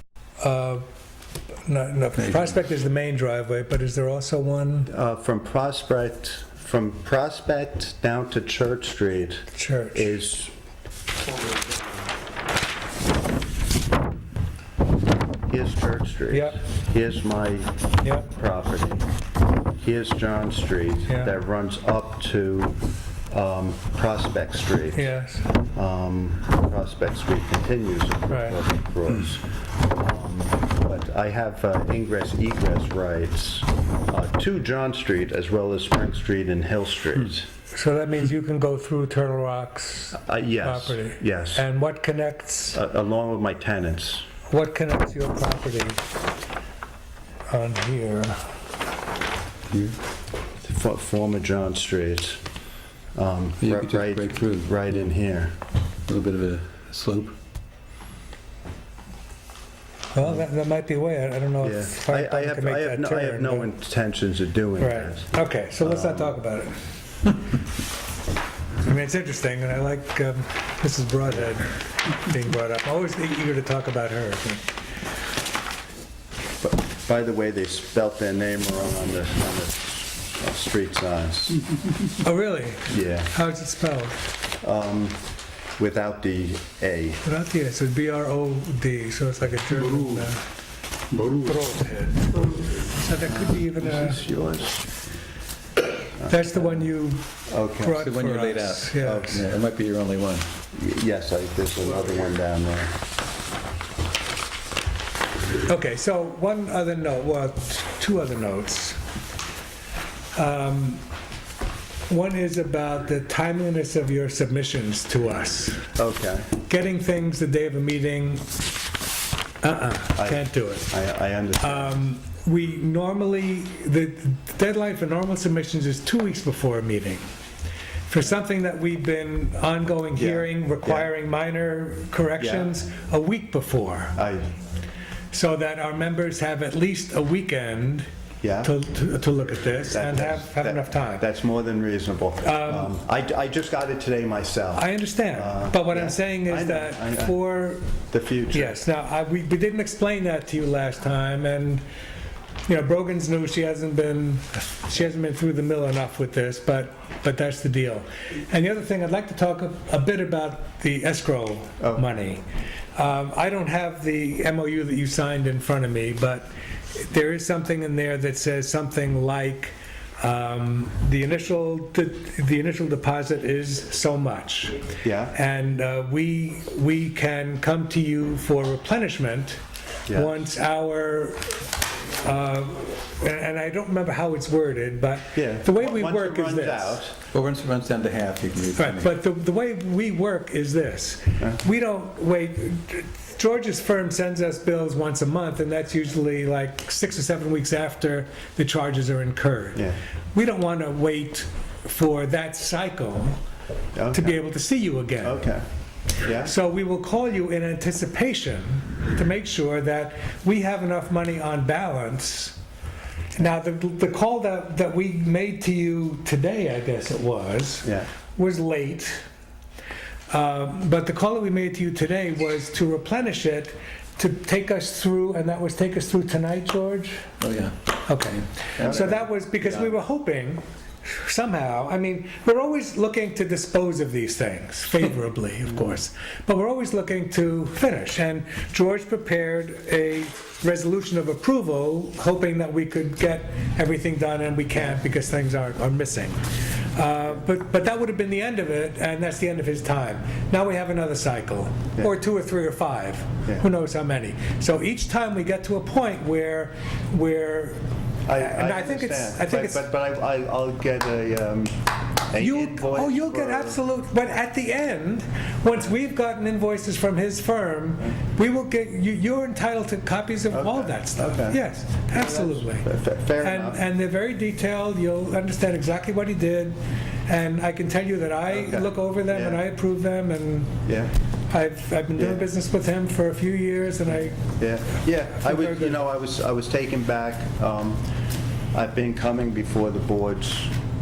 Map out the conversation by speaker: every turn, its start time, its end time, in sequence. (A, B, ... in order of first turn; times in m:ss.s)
0:00.4-0:00.8 A
0:01.7-0:04.9 A
0:04.9-0:10.5 B
0:09.5-0:10.0 A
0:15.5-0:19.0 B
0:16.3-0:16.6 A
0:18.0-0:18.3 A
0:19.8-0:22.8 B
0:21.1-0:21.3 A
0:23.3-0:25.1 B
0:24.9-0:25.5 A
0:25.7-0:37.5 B
0:28.3-0:28.6 A
0:37.7-0:42.8 A
0:40.2-0:41.7 B
0:42.7-0:44.3 B
0:44.5-0:46.0 A
0:47.5-0:48.6 A
0:50.6-0:52.4 B
0:53.2-0:55.6 B
0:53.6-0:54.7 C
0:56.1-0:57.3 C
1:00.1-1:03.7 A
1:01.6-1:06.4 B
1:04.8-1:06.8 A
1:08.8-1:14.7 A
1:16.6-1:21.6 B
1:22.2-1:24.2 A
1:22.9-1:23.3 B
1:24.6-1:25.2 B
1:25.8-1:27.2 B
1:27.2-1:30.4 A
1:31.2-1:34.2 A
1:33.2-1:35.1 B
1:36.2-1:36.9 B
1:36.2-1:39.4 A
1:37.5-1:38.1 B
1:38.0-1:40.5 C
1:39.0-1:39.4 B
1:40.7-1:43.0 B
1:45.6-1:49.0 A
1:50.3-1:51.0 A
1:52.1-1:55.9 A
1:56.0-1:56.5 B
1:56.6-1:58.5 A
1:59.6-2:00.9 A
2:00.2-2:02.0 B
2:01.6-2:07.2 A
2:08.1-2:14.2 A
2:10.2-2:11.1 B
2:12.4-2:12.8 B
2:14.2-2:14.5 B
2:15.3-2:18.1 A
2:18.4-2:18.7 B
2:18.6-2:21.3 A
2:19.9-2:27.4 B
2:22.4-2:22.9 A
2:24.8-2:27.9 A
2:28.1-2:28.8 B
2:28.5-2:31.8 A
2:32.7-2:42.4 A
2:42.9-2:59.6 A
2:55.0-2:55.3 B
3:00.1-3:00.3 B
3:00.1-3:01.6 A
3:02.2-3:07.0 A
3:05.3-3:07.2 B
3:07.3-3:09.1 C
3:08.8-3:23.4 A
3:23.9-3:24.4 B
3:24.1-3:25.4 A
3:25.2-3:25.6 B
3:26.2-3:26.5 B
3:26.4-3:32.6 A
3:33.3-3:39.2 A
3:37.8-3:38.1 B
3:40.3-3:47.3 A
3:47.4-3:49.9 C
3:48.0-4:17.8 A
3:48.8-3:49.2 B
4:18.2-4:23.8 B
4:18.4-4:19.9 A
4:22.4-4:32.9 A
4:30.5-4:31.6 B
4:32.1-4:33.8 B
4:33.4-4:40.8 A
4:38.5-4:39.6 B
4:40.8-4:41.1 B
4:41.5-4:44.4 A
4:42.2-4:42.4 B
4:44.4-4:48.0 B
4:45.3-4:46.1 A
4:48.7-4:50.8 B